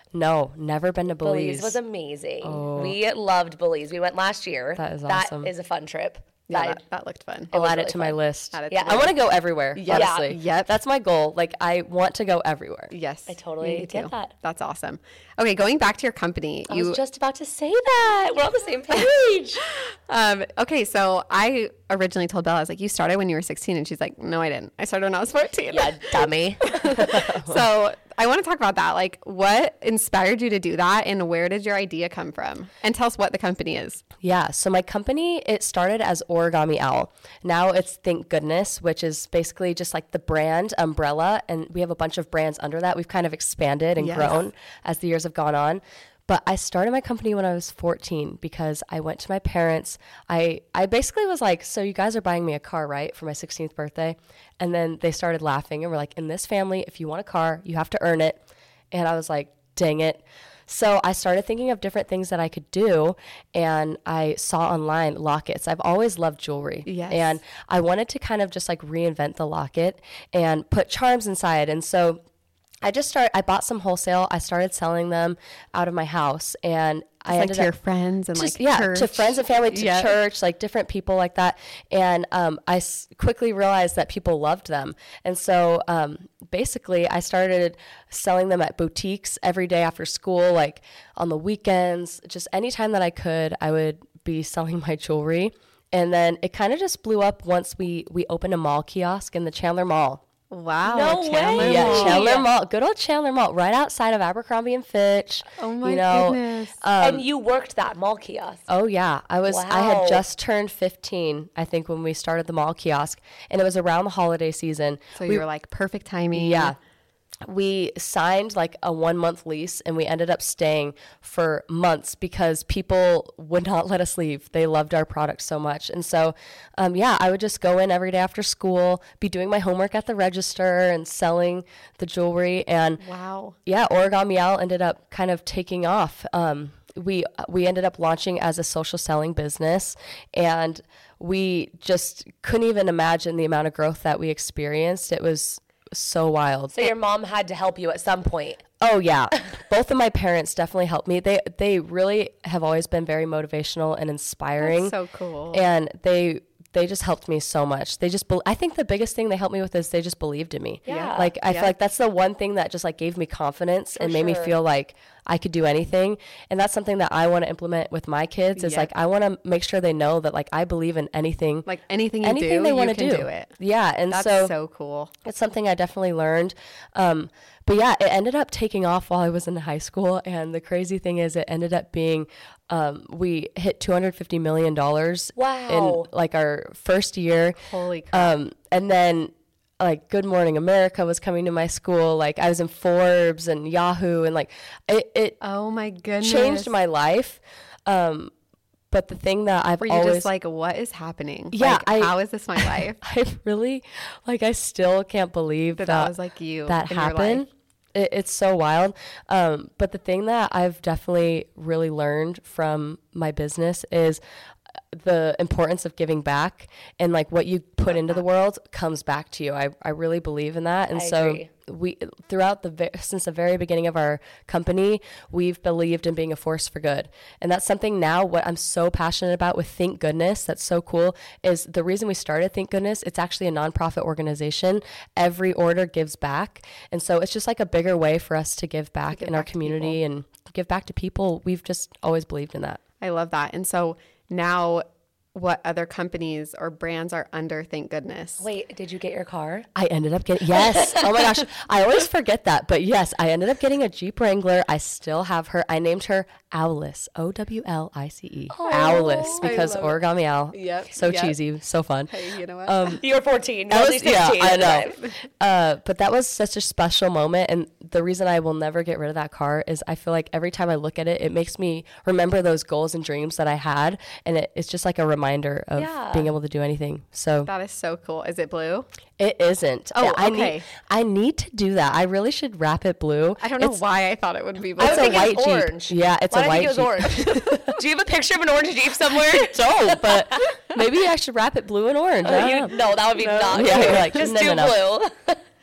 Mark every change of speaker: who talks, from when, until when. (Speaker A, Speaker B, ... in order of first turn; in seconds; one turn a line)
Speaker A: 0.1-1.8
Speaker B: 1.2-6.8
Speaker A: 2.4-3.0
Speaker A: 4.8-5.5
Speaker C: 6.5-7.5
Speaker B: 7.5-8.2
Speaker A: 7.5-12.9
Speaker C: 8.5-9.1
Speaker B: 8.7-9.1
Speaker C: 9.7-10.8
Speaker B: 9.9-10.3
Speaker C: 12.9-17.0
Speaker B: 13.3-14.3
Speaker B: 16.7-19.6
Speaker C: 20.1-34.0
Speaker B: 25.7-27.2
Speaker A: 27.2-27.6
Speaker A: 34.2-58.4
Speaker C: 44.0-44.4
Speaker A: 58.9-72.2
Speaker C: 66.8-67.4
Speaker A: 72.8-77.7
Speaker C: 77.3-80.1
Speaker A: 78.3-100.2
Speaker C: 100.5-102.3
Speaker B: 100.8-102.5
Speaker A: 101.5-107.2
Speaker C: 105.6-106.8
Speaker B: 107.0-108.6
Speaker A: 108.7-115.4
Speaker B: 109.5-110.2
Speaker C: 115.2-116.7
Speaker A: 116.3-116.8
Speaker A: 117.5-133.0
Speaker C: 133.0-133.6
Speaker A: 133.7-146.9
Speaker B: 146.7-148.6
Speaker A: 148.8-154.9
Speaker C: 154.6-155.6
Speaker A: 155.5-171.7
Speaker B: 160.8-161.3
Speaker C: 160.9-161.7
Speaker B: 164.0-164.6
Speaker C: 168.6-168.9
Speaker C: 171.7-173.5
Speaker A: 172.2-174.5
Speaker C: 174.1-175.1
Speaker A: 175.2-187.6
Speaker B: 185.3-186.1
Speaker C: 187.7-188.3
Speaker A: 188.1-195.4
Speaker C: 195.4-196.7
Speaker A: 196.2-198.3
Speaker A: 198.9-200.3
Speaker C: 199.8-203.0
Speaker A: 201.5-206.1
Speaker C: 205.7-207.4
Speaker A: 206.7-214.2
Speaker A: 214.9-242.8
Speaker C: 217.9-218.2
Speaker B: 220.9-221.5
Speaker C: 239.1-240.0
Speaker C: 243.0-248.5
Speaker B: 248.4-249.7
Speaker A: 249.7-263.0
Speaker B: 250.5-251.2
Speaker B: 258.5-259.6
Speaker C: 259.4-260.0
Speaker C: 260.5-261.4
Speaker C: 262.1-263.0
Speaker B: 263.0-265.0
Speaker A: 263.7-277.5
Speaker B: 275.8-276.3
Speaker C: 277.4-278.9
Speaker A: 279.2-283.8
Speaker C: 279.9-280.6
Speaker C: 283.4-285.3
Speaker B: 284.8-290.5
Speaker A: 284.8-287.7
Speaker A: 289.4-292.7
Speaker B: 292.2-295.4
Speaker C: 293.2-294.3
Speaker A: 293.5-294.8